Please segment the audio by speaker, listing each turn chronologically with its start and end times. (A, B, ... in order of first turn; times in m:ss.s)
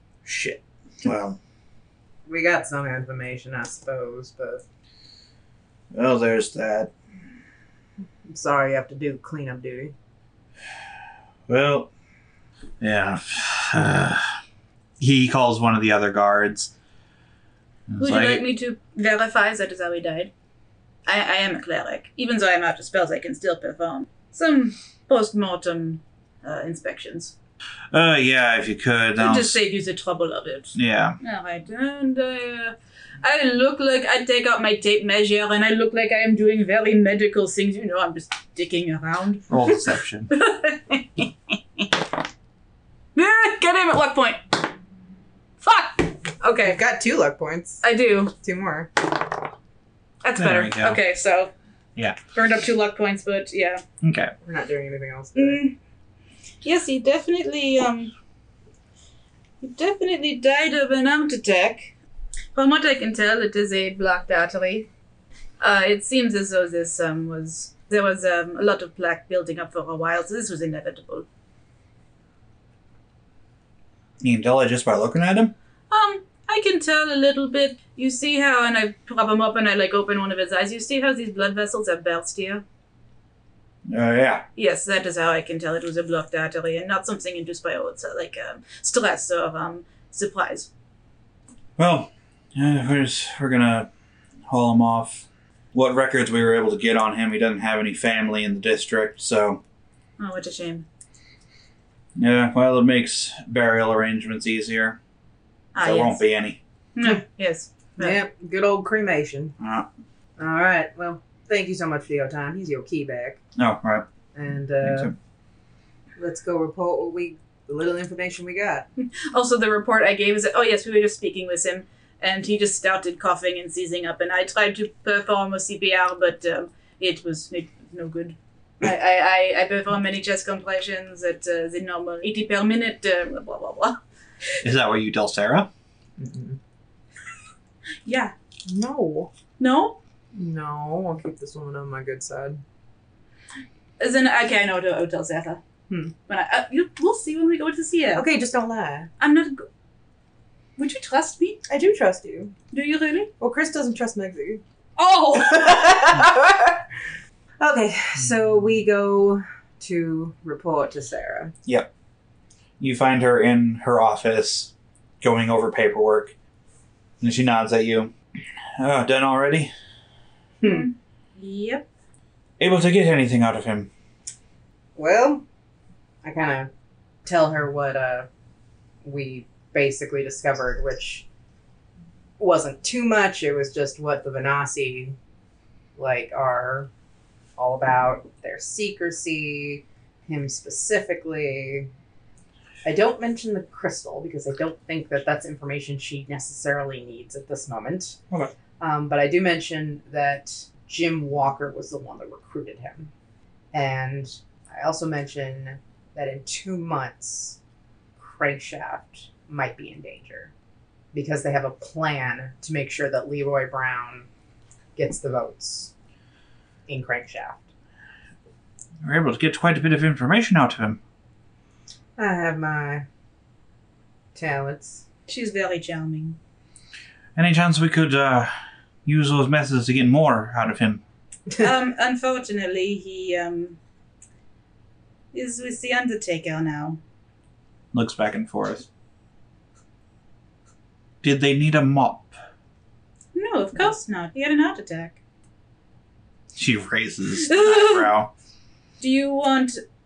0:00.2-0:01.4 A
0:02.3-0:04.6 B
0:05.9-0:06.9 A
0:08.3-0:09.9 B
0:11.5-0:11.9 A
0:12.8-0:14.2 A
0:15.0-0:16.7 A
0:17.9-0:18.4 A
0:18.0-0:20.3 C
0:21.0-0:27.3 C
0:27.9-0:29.6 A
0:29.2-0:41.9 C
0:30.7-0:31.2 A
0:39.5-0:40.3 A
0:43.1-0:44.4 C
0:45.6-0:46.8 C
0:46.6-0:47.8 B
0:47.8-0:48.3 C
0:48.4-0:48.9 B
0:50.2-0:51.5 C
0:50.4-0:51.0 A
0:52.3-0:53.8 C
0:54.0-0:54.3 A
0:54.4-0:55.6 B
0:55.4-0:55.7 C
0:56.6-0:58.1 C
0:59.6-1:01.9 C
1:02.6-1:04.9 C
1:05.6-1:11.3 C
1:14.2-1:15.6 A
1:15.9-1:22.6 C
1:23.9-1:24.4 A
1:24.6-1:30.7 C
1:31.8-1:33.9 A
1:34.5-1:39.6 A
1:40.2-1:40.9 C
1:42.2-1:45.0 A
1:45.7-1:46.2 C
1:45.8-1:46.6 A
1:47.0-1:48.2 C
1:48.0-1:49.6 B
1:49.6-1:49.9 A
1:50.4-1:53.4 B
1:53.6-1:54.1 A
1:54.3-1:55.1 B
1:54.8-1:55.1 A
1:56.2-1:58.9 B
1:59.0-2:14.0 C
2:14.6-2:15.7 A
2:16.2-2:16.6 B
2:18.0-2:18.3 C
2:18.7-2:19.3 B
2:19.6-2:20.0 C
2:20.3-2:22.6 B
2:24.0-2:25.6 C
2:26.3-2:28.3 C
2:28.1-2:29.1 B
2:29.2-2:29.7 C
2:30.8-2:31.6 C
2:31.7-2:32.6 B
2:32.7-2:33.3 C
2:33.4-2:34.6 B
2:35.0-2:36.1 C
2:35.3-2:36.8 B
2:37.6-2:41.5 B
2:42.8-2:46.3 A
2:47.2-2:48.1 A
2:48.8-2:49.7 A
2:50.6-2:50.9 B
2:50.6-2:51.9 C
2:52.6-2:53.9 A
2:55.0-2:55.4 B
2:56.2-2:56.7 B
2:57.2-2:58.3 B
2:59.0-3:01.3 B
3:02.4-3:05.2 B
3:06.0-3:06.9 B
3:07.6-3:11.9 B
3:12.8-3:18.2 B
3:18.8-3:23.1 B
3:23.7-3:27.6 B
3:28.2-3:30.5 B
3:31.1-3:34.3 B
3:35.0-3:35.9 B
3:36.9-3:37.7 B
3:39.0-3:41.0 A
3:42.2-3:43.0 B
3:44.3-3:45.0 B
3:45.3-3:46.4 C
3:47.4-3:48.5 A
3:49.0-3:51.0 A
3:51.6-3:53.8 C
3:55.3-3:57.0 C
3:57.9-3:58.9 A
4:01.2-4:02.3 A
4:03.3-4:05.2 C
4:06.6-4:08.3 A
4:07.4-4:08.1 C
4:09.0-4:09.8 C